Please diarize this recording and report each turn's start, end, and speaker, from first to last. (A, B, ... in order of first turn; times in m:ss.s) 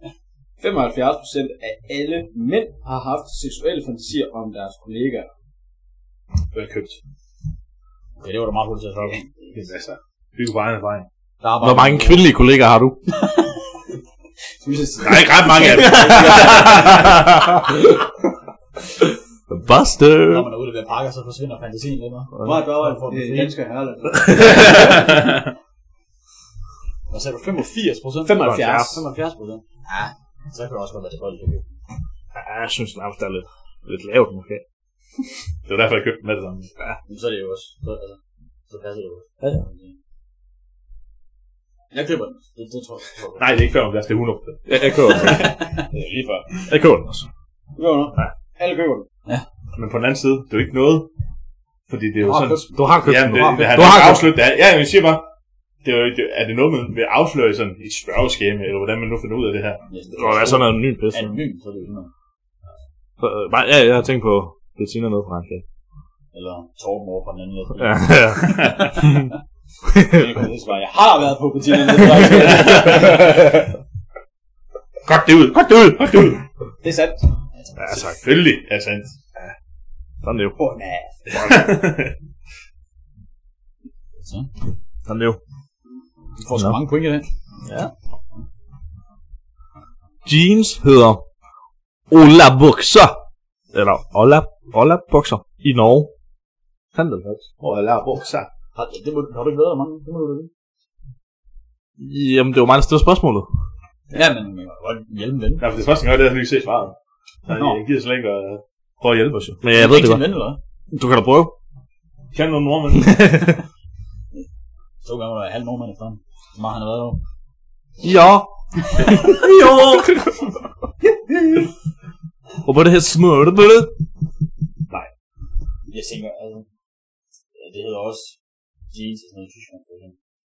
0:00.6-0:05.3 A
0:06.5-0:07.0 B
0:08.2-0:09.3 C
0:09.5-0:11.1 B
0:11.4-0:12.3 C
0:11.6-0:13.0 D
0:14.6-0:17.3 A
0:15.0-0:16.6 B
0:15.0-0:17.8 D
0:15.6-0:16.9 C
0:19.0-0:20.5 D
0:20.3-0:23.5 C
0:22.4-0:25.3 A
0:24.4-0:24.9 D
0:27.1-0:31.8 C
0:28.2-0:29.1 A
0:28.4-0:29.1 D
0:32.3-0:34.6 D
0:35.7-0:36.7 B
0:37.1-0:40.0 C
0:41.9-0:43.5 C
0:43.4-0:45.2 B
0:44.7-0:45.5 D
0:45.2-0:46.5 A
0:46.7-0:47.3 D
0:47.8-0:49.1 A
0:49.8-0:51.1 B
0:51.9-0:55.2 B
0:52.2-0:52.7 C
0:52.7-0:54.4 D
0:53.3-0:53.9 C
0:55.8-0:59.8 B
0:59.9-1:02.1 C
1:00.2-1:01.4 D
1:03.2-1:05.6 D
1:06.3-1:09.0 C
1:07.8-1:09.3 D
1:08.4-1:09.0 B
1:09.9-1:10.2 D
1:10.0-1:13.5 A
1:12.7-1:13.5 D
1:15.0-1:16.4 D
1:16.1-1:16.4 B
1:16.8-1:17.2 A
1:17.6-1:17.8 C
1:17.8-1:18.2 D
1:17.9-1:19.1 B
1:20.2-1:20.6 D
1:20.6-1:21.6 A
1:21.3-1:22.1 B
1:24.2-1:24.5 C
1:25.1-1:25.4 D
1:26.4-1:27.3 C
1:30.2-1:31.2 D
1:32.1-1:33.2 D
1:33.7-1:36.1 D
1:36.9-1:37.5 D
1:37.6-1:38.5 B
1:38.8-1:40.5 C
1:42.0-1:43.5 D
1:44.1-1:45.7 C
1:45.6-1:49.6 B
1:47.5-1:47.8 C
1:49.6-1:50.2 D
1:49.7-1:50.6 C
1:50.9-1:51.5 D
1:52.3-1:53.2 B
1:53.0-1:53.6 D
1:55.0-1:57.2 C
1:58.0-2:00.2 D
2:02.6-2:03.9 D
2:05.9-2:06.7 C
2:07.6-2:08.4 C
2:08.9-2:10.1 C